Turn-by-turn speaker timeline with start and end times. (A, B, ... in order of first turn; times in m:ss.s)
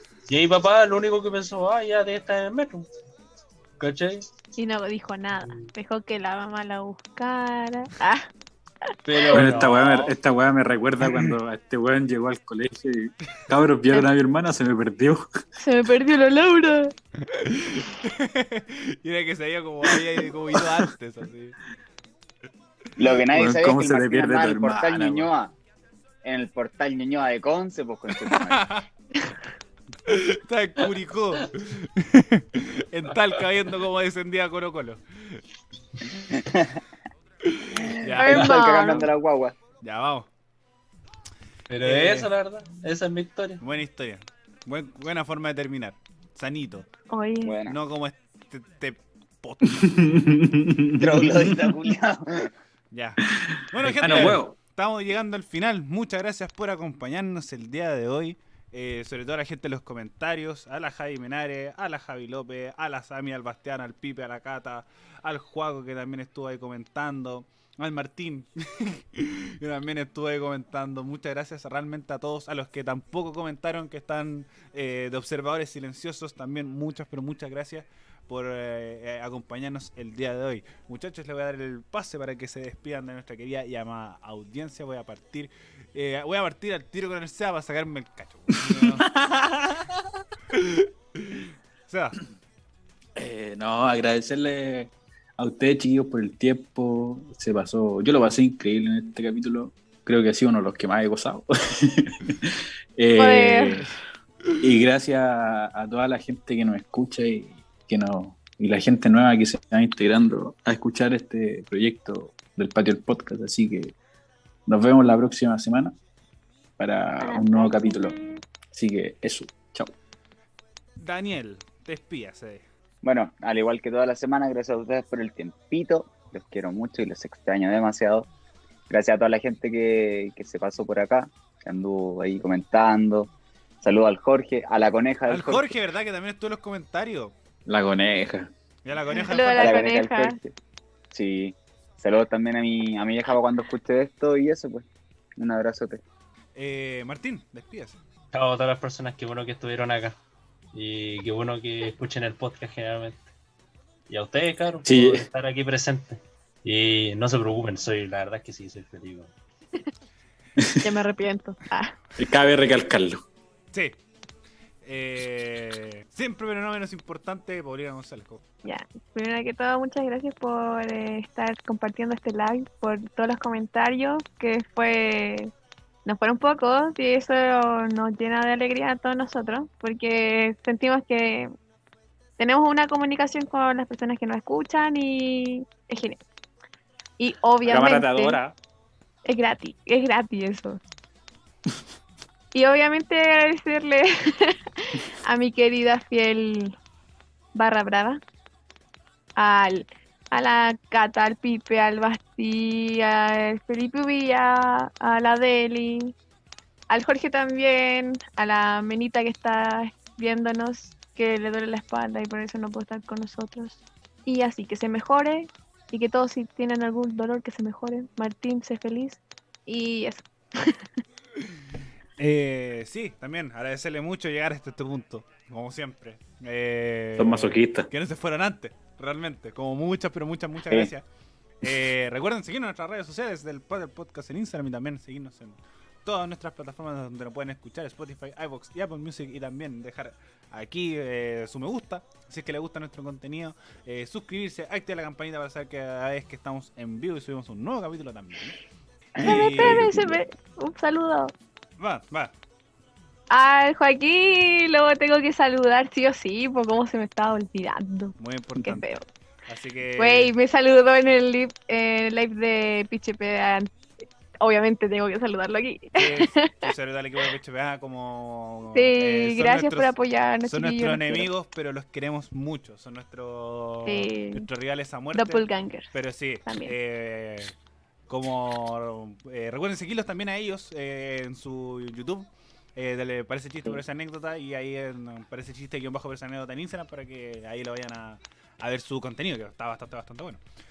0:00.2-0:02.9 A
0:03.8-0:04.2 A
0:04.6-0:08.3 B
0:09.0-0:10.1 A
0:09.3-0:15.2 C
0:15.6-0:16.9 B
0:17.3-0:21.6 D
0:23.0-0:25.5 E
0:23.3-0:25.3 C
0:26.2-0:28.7 E
0:28.3-0:28.8 D
0:30.1-0:35.4 D
0:36.2-0:36.8 E
0:37.5-0:38.6 D
0:38.2-0:39.1 B
0:38.2-0:39.5 E
0:39.8-0:40.3 D
0:41.7-0:43.6 A
0:41.8-0:42.3 D
0:43.6-0:46.9 D
0:47.1-0:47.6 B
0:47.4-0:47.8 E
0:47.6-0:49.9 D
0:49.8-0:51.7 C
0:51.0-0:52.5 E
0:52.9-1:29.1 D
0:53.8-0:54.6 C
1:29.1-1:29.9 C
1:30.5-1:32.2 D
1:33.2-1:43.9 C
1:43.2-1:43.9 B
1:44.6-1:53.9 C
1:54.7-1:56.0 C
1:56.8-1:58.2 C
1:57.2-1:58.4 B
1:58.7-1:59.9 C
2:01.0-2:02.6 D
2:03.0-2:08.3 E
2:08.9-2:13.3 E
2:13.8-2:15.7 E
2:15.3-2:17.3 D
2:17.6-2:18.5 C
2:18.8-2:19.9 D
2:19.2-2:20.4 B
2:19.6-2:20.5 E
2:21.1-2:26.0 E
2:26.5-2:28.0 D
2:28.3-2:30.2 A
2:30.7-2:33.3 A
2:34.1-2:39.3 A
2:34.8-2:35.2 C
2:40.6-2:40.9 C
2:40.8-2:42.0 B
2:42.2-2:43.2 C
2:44.8-2:48.4 D
2:48.6-2:55.5 B
2:56.0-3:01.5 B
3:02.4-3:06.2 B
3:07.2-3:08.4 B
3:07.6-3:08.5 C
3:09.2-3:10.8 B
3:12.5-3:16.8 B
3:17.5-3:18.2 B
3:19.4-3:26.1 B
3:26.9-3:40.8 B
3:42.2-3:51.0 D
3:47.2-3:47.9 C
3:51.6-4:08.6 D
4:09.2-4:09.9 D
4:09.2-4:11.3 B
4:09.3-4:09.9 E
4:09.5-4:10.1 C
4:11.8-4:12.3 D
4:13.3-4:19.0 B
4:18.2-4:18.9 D
4:19.5-4:20.3 D
4:20.0-4:23.7 B
4:24.4-4:26.7 B
4:26.0-4:37.5 D
4:28.7-4:31.3 B
4:33.8-4:34.5 B
4:35.1-4:35.9 B
4:36.4-4:36.7 B
4:38.1-4:50.4 D